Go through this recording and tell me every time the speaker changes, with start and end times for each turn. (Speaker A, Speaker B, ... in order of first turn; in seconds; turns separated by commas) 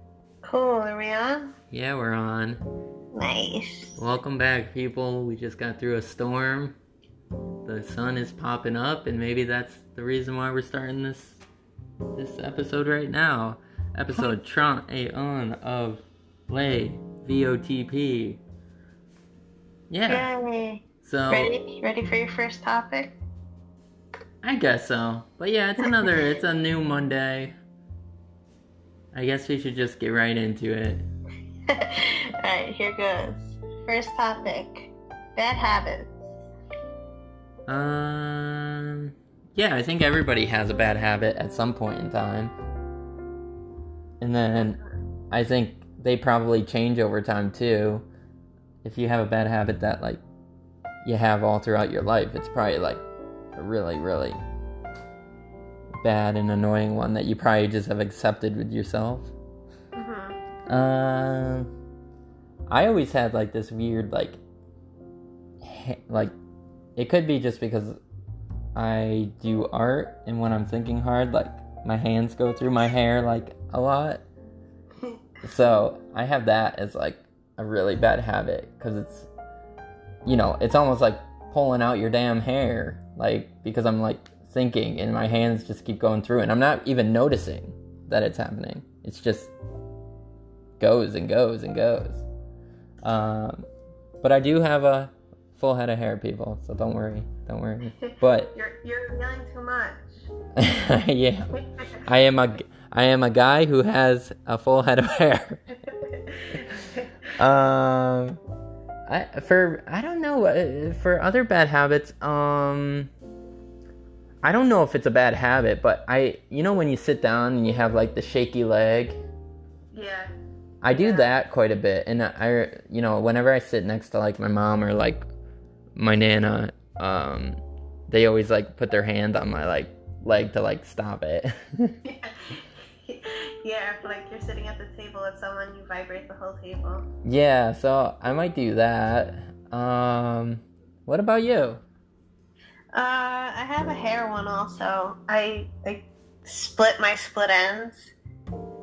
Speaker A: 0.5-1.5, Speaker B: 1.7-2.6, Speaker A: 3.1-3.9, Speaker B: 4.0-6.8, Speaker B: 7.7-11.4, Speaker B: 12.2-18.4, Speaker B: 19.9-20.3, Speaker A: 20.1-23.1, Speaker B: 21.0-21.5, Speaker B: 24.4-27.6, Speaker B: 29.1-31.1, Speaker A: 31.7-36.2, Speaker B: 37.7-42.5, Speaker B: 44.2-44.8, Speaker B: 45.3-48.1, Speaker B: 48.8-50.2, Speaker B: 51.0-53.0, Speaker B: 53.6-54.4, Speaker B: 56.0-59.3, Speaker A: 60.0-60.4, Speaker B: 60.7-61.7, Speaker B: 62.7-64.4, Speaker B: 65.6-66.3, Speaker B: 67.0-68.0, Speaker B: 68.8-74.2, Speaker B: 75.4-79.3, Speaker B: 80.2-89.5, Speaker B: 90.8-92.2, Speaker B: 93.0-93.7, Speaker B: 94.2-98.5, Speaker A: 98.5-100.1, Speaker B: 100.6-101.5, Speaker B: 102.0-105.6, Speaker B: 107.4-108.4, Speaker B: 109.1-113.1, Speaker B: 114.4-119.2, Speaker A: 119.9-120.3, Speaker B: 120.8-125.3, Speaker A: 120.9-121.3, Speaker B: 126.0-131.9, Speaker A: 132.1-137.0, Speaker B: 137.2-141.8, Speaker A: 142.9-148.1